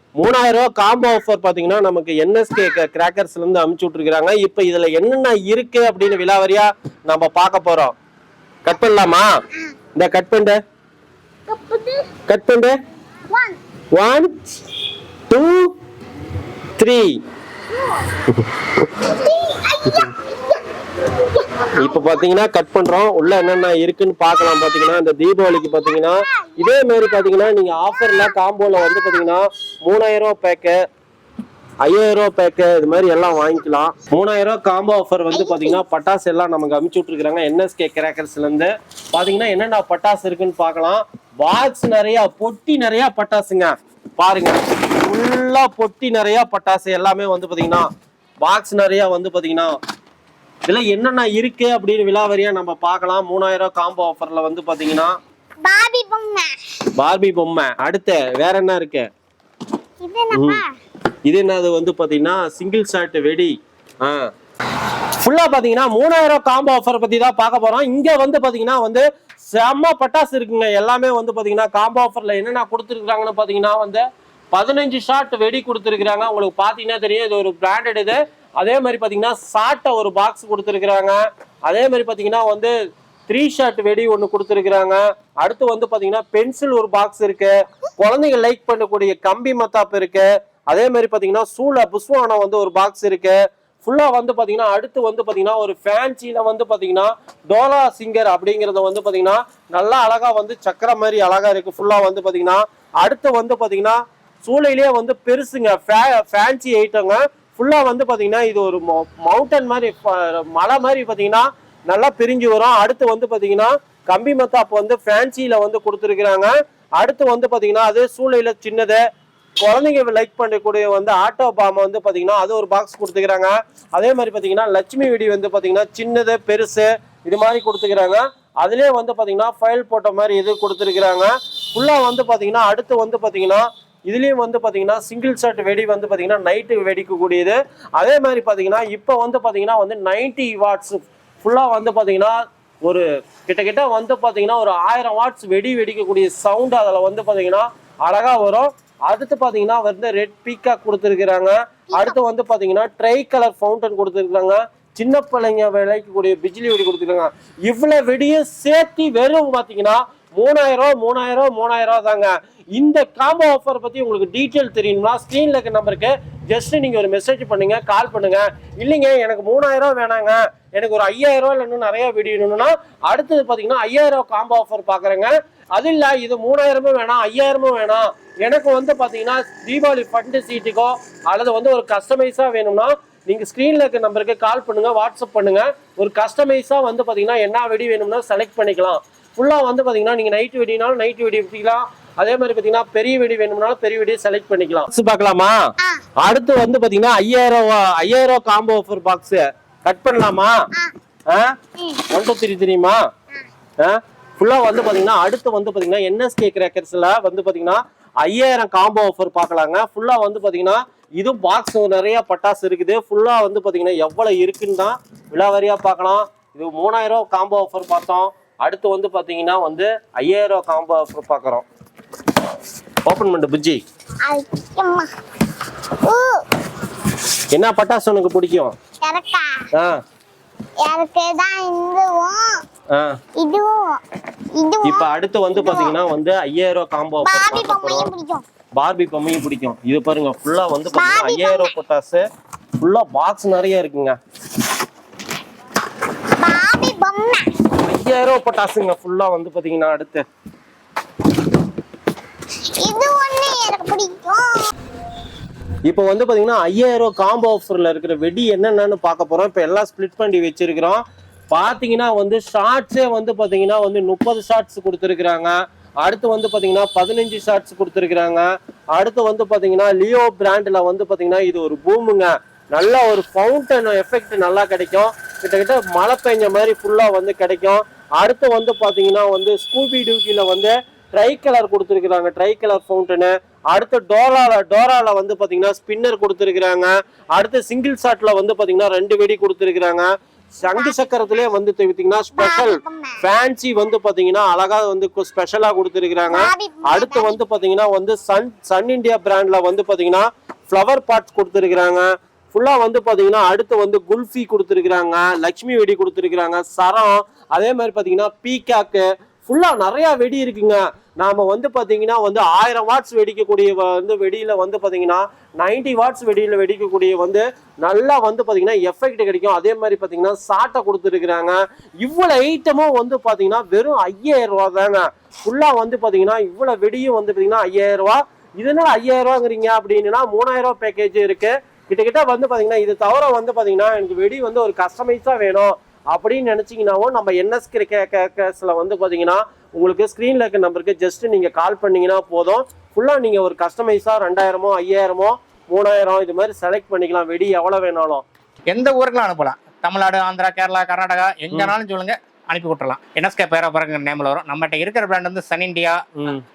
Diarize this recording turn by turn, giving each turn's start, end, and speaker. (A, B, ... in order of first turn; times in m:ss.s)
0:00.2-0:07.9 A
0:08.6-0:09.3 A
0:10.0-0:10.6 A
0:11.5-0:11.9 B
0:12.3-0:12.8 A
0:13.9-0:14.4 A
0:15.3-0:15.7 A
0:16.8-0:17.2 A
0:18.3-0:19.1 A
0:19.2-0:20.1 B
0:19.9-0:20.1 A
0:21.7-0:30.8 A
0:25.7-0:26.7 B
0:28.9-0:29.2 B
0:31.8-0:47.9 A
0:35.3-0:35.8 B
0:48.4-0:49.7 A
0:50.7-0:55.1 A
0:55.6-0:56.5 B
0:57.0-0:59.1 A
1:00.0-1:00.7 B
1:00.3-1:00.6 A
1:01.3-1:04.3 A
1:05.2-1:22.7 A
1:23.3-1:59.0 A
1:59.6-3:15.6 A
3:16.2-3:20.6 A
3:22.1-3:23.0 A
3:23.8-3:41.7 A
3:43.1-3:43.8 A
3:44.2-3:45.1 B
3:46.0-3:46.4 B
3:47.5-3:48.8 A
3:49.0-3:49.5 B
3:50.8-3:52.6 B
3:53.4-3:54.0 B
3:54.6-3:56.0 B
3:54.8-3:58.1 A
3:57.2-3:58.4 B
3:58.8-4:02.2 A
4:00.9-4:01.7 B
4:02.8-4:04.2 A
4:06.4-4:07.5 B
4:07.8-4:10.2 A
4:12.8-4:14.7 B
4:15.9-5:48.2 A
4:50.7-4:50.9 B
4:52.4-4:53.2 B
4:56.3-4:57.4 B
5:48.7-5:56.0 C